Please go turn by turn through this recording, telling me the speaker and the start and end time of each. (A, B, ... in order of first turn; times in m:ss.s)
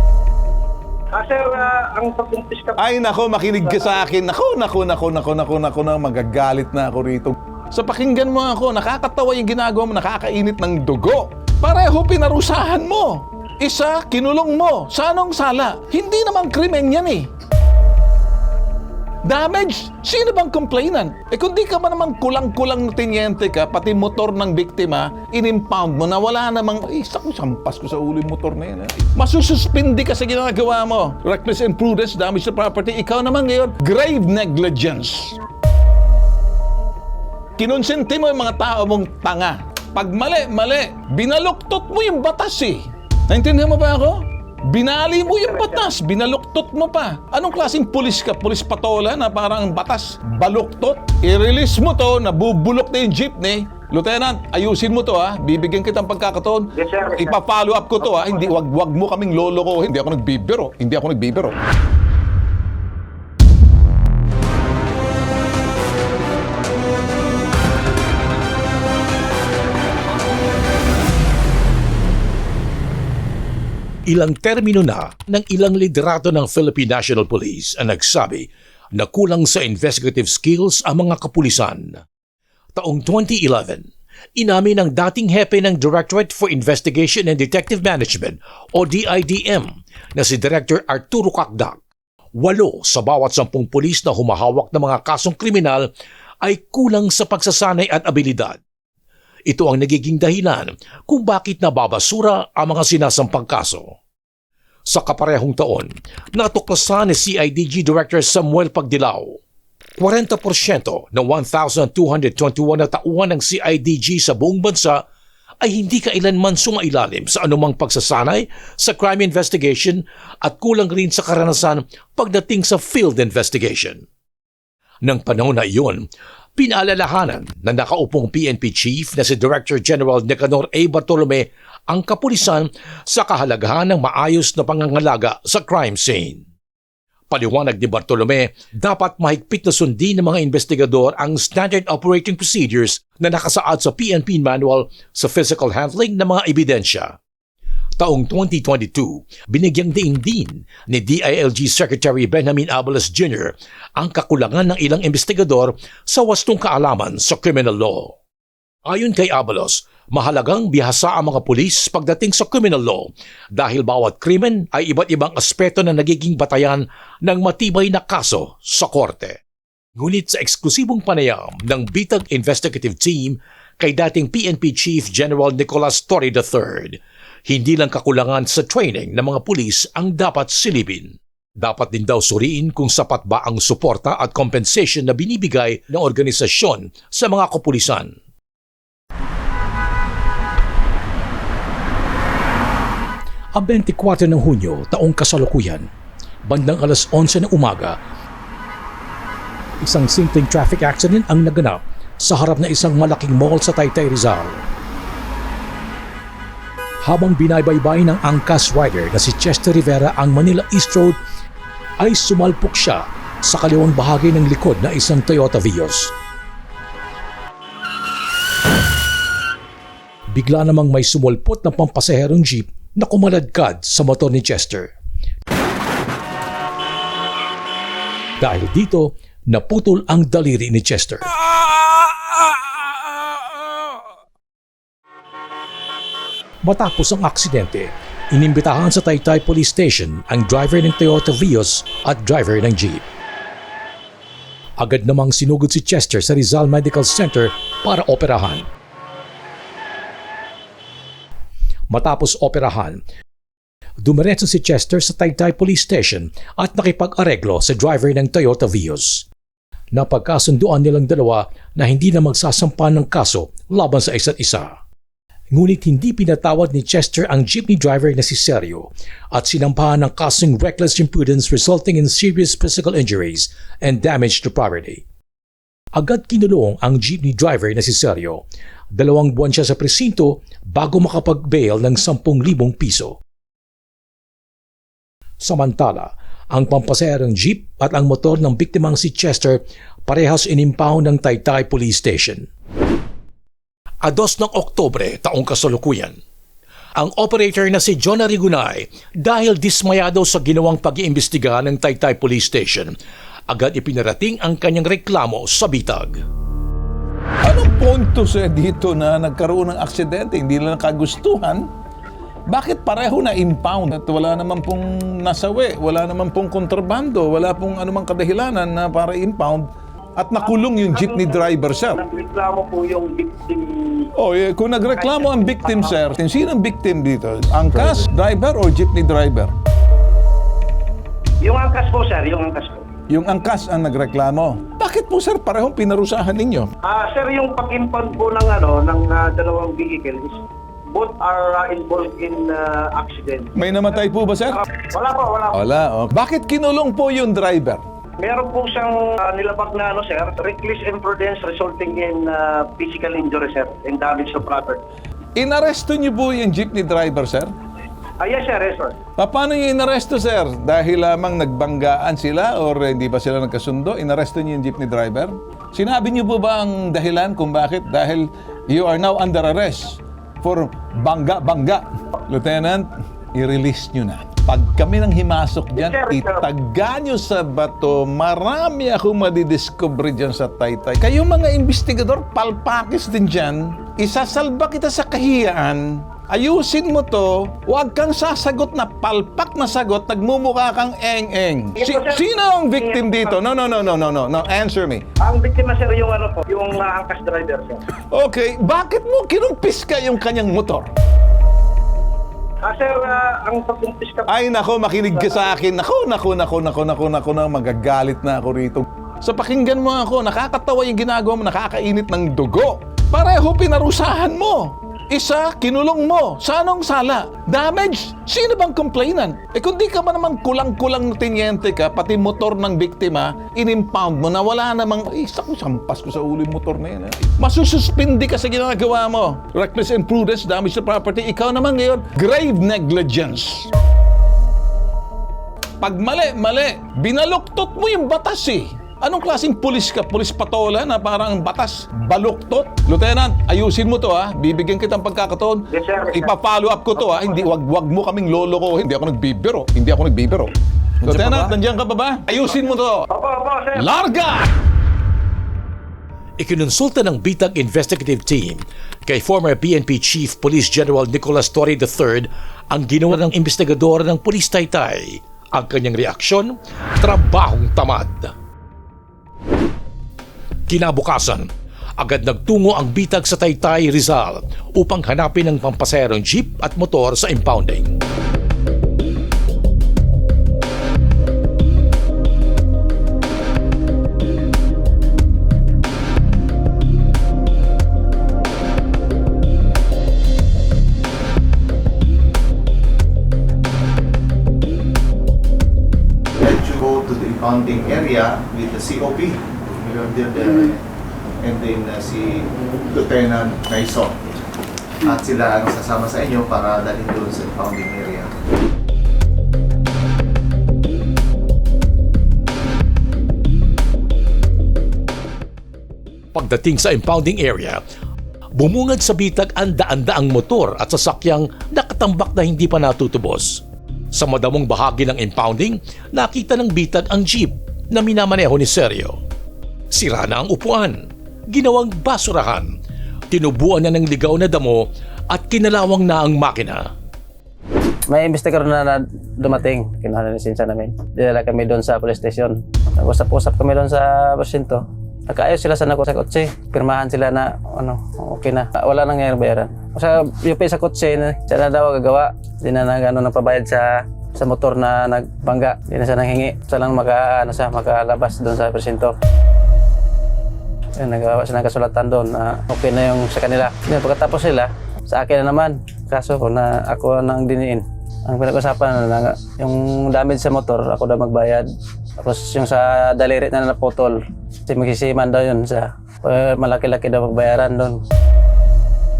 0:01.2-0:02.8 A
0:02.8-0:17.3 B
0:19.2-0:35.4 B
0:37.6-1:01.6 B
0:45.4-0:45.8 A
0:56.8-0:57.3 A
0:58.0-0:58.3 A
1:14.1-1:22.0 C
1:22.8-1:31.8 C
1:32.4-1:35.9 C
1:36.4-1:38.6 C
1:39.5-1:43.9 C
1:44.9-1:49.4 C
1:50.0-1:55.0 C
1:55.6-2:04.0 C
2:05.0-2:06.0 C
2:06.6-2:16.4 C
2:17.3-2:27.2 C
2:28.0-2:38.1 C
2:38.9-2:49.4 C
2:50.0-3:08.1 C
3:13.5-3:15.9 C
3:16.5-3:18.0 C
3:19.8-3:24.6 C
3:27.0-3:31.2 C
3:32.0-3:36.1 C
3:40.3-3:44.9 C
3:48.4-3:51.3 C
3:56.6-4:03.0 C
4:04.8-4:08.6 C
4:11.9-4:13.0 C
4:14.0-4:19.2 C
4:19.9-4:24.7 C
4:25.5-4:35.0 C
4:35.9-4:38.4 C
4:38.9-4:43.2 C
4:45.4-4:52.5 C
4:54.0-4:56.2 C
4:57.0-5:02.9 C
5:03.5-5:06.2 C
5:07.4-5:11.7 B
5:12.5-5:22.0 B
5:20.4-5:24.0 A
5:24.2-5:29.5 B
5:24.9-5:26.0 A
5:31.4-5:32.8 A
5:33.1-5:36.7 B
5:36.8-5:40.4 A
5:40.9-5:43.5 A
5:43.5-5:44.6 B
5:44.9-5:45.5 A
5:45.5-5:47.8 B
5:48.2-5:54.8 A
5:55.4-5:57.5 B
5:58.2-5:58.9 A
5:59.2-6:35.0 B
6:15.8-6:16.3 A
6:31.8-6:32.2 A
6:32.7-6:33.3 A
6:35.2-6:37.8 A
6:38.1-6:40.9 B
6:42.7-6:44.3 A
6:44.3-7:13.7 B
6:45.1-6:45.4 A
7:15.8-7:33.1 B
7:25.8-7:26.3 A
7:27.0-7:27.3 A
7:31.2-7:31.5 A
7:33.1-7:33.9 A
7:33.8-7:34.5 B
7:36.4-7:48.3 C
7:50.7-7:51.5 C
7:52.0-7:57.9 C
8:16.4-8:20.8 D
8:21.4-8:24.1 D
8:25.0-8:28.3 D
8:36.3-8:37.8 C
8:38.6-8:43.6 C
8:44.1-8:49.2 C
8:49.9-8:50.9 C
8:51.5-8:52.7 C
8:53.3-8:56.8 C
8:58.1-9:19.1 E
9:21.0-9:31.7 E
9:32.2-9:38.0 E